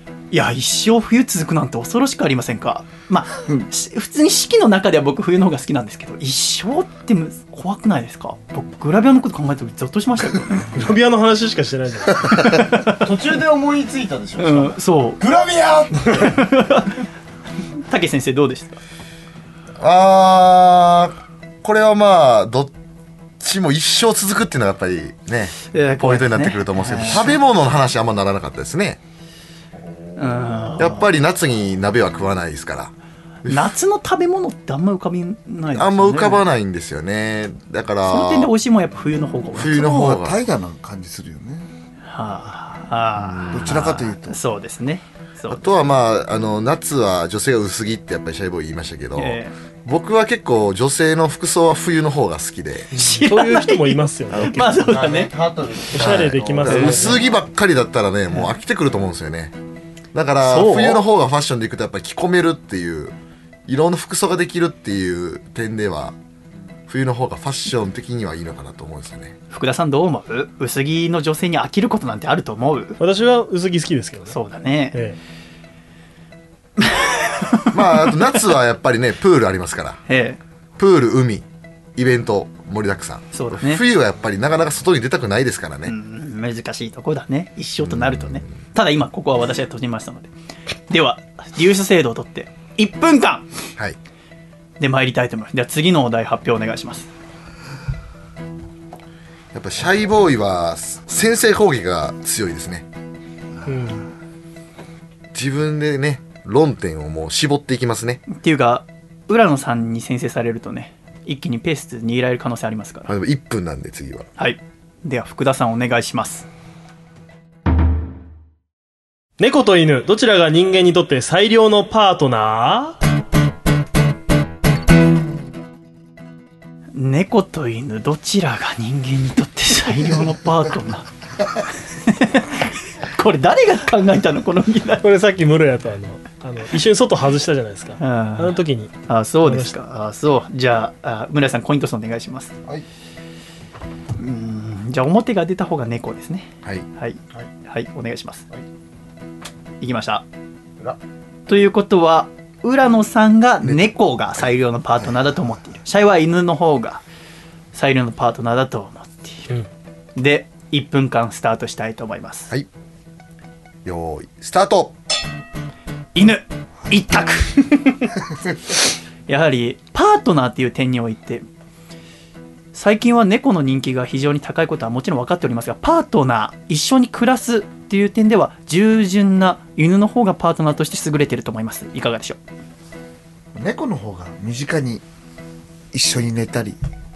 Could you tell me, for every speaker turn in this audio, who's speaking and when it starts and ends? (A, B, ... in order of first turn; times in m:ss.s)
0:00.3-0:10.7 A
0:10.7-0:12.7 B
0:12.8-0:16.4 C
0:14.4-0:15.2 A
0:16.2-0:17.0 A
0:17.9-0:18.8 A
0:19.8-0:22.7 D
0:23.4-0:29.0 D
0:25.7-0:27.4 A
0:29.8-0:30.8 C
0:30.2-0:31.0 A
0:30.8-0:32.9 D
0:33.4-0:33.7 D
0:33.5-0:36.4 A
0:35.7-0:38.5 D
0:38.1-0:39.9 A
0:39.5-0:40.4 D
0:39.6-0:41.7 E
0:42.1-0:45.7 A
0:43.2-0:44.0 D
0:43.5-0:44.4 E
0:45.5-0:52.9 D
0:49.2-0:49.5 A
0:52.9-0:54.9 B
0:53.0-0:55.3 A
0:54.8-0:57.2 C
0:55.9-0:57.2 B
0:56.0-0:59.6 D
0:56.7-0:57.0 A
1:00.1-1:03.2 D
1:00.4-1:01.0 B
1:03.7-1:06.2 D
1:06.9-1:09.4 D
1:09.5-1:13.0 A
1:13.0-1:14.4 B
1:14.3-1:15.0 A
1:16.8-1:17.7 A
1:17.7-1:20.0 D
1:20.1-1:20.4 A
1:20.8-1:21.4 D
1:22.0-1:25.9 D
1:23.3-1:23.8 A
1:25.8-1:30.3 A
1:27.8-1:28.5 D
1:30.9-1:33.5 A
1:34.8-1:37.1 A
1:39.5-1:42.9 D
1:43.7-1:44.1 B
1:45.3-1:48.2 D
1:48.3-1:53.1 A
1:53.1-1:54.3 D
1:54.4-1:56.5 A
1:59.4-2:03.0 B
2:07.0-2:11.1 A
2:12.0-2:15.1 A
2:15.0-2:19.7 B
2:18.0-2:22.5 A
2:24.2-2:28.4 A
2:29.8-2:30.2 A
2:31.5-2:37.0 A
2:33.6-2:34.0 D
2:37.7-2:39.5 A
2:40.2-2:42.5 A
2:43.8-2:45.0 D
2:46.2-2:48.0 A
2:49.3-2:51.4 A
2:52.7-3:02.4 A
3:03.6-3:05.0 E
3:05.9-3:06.8 E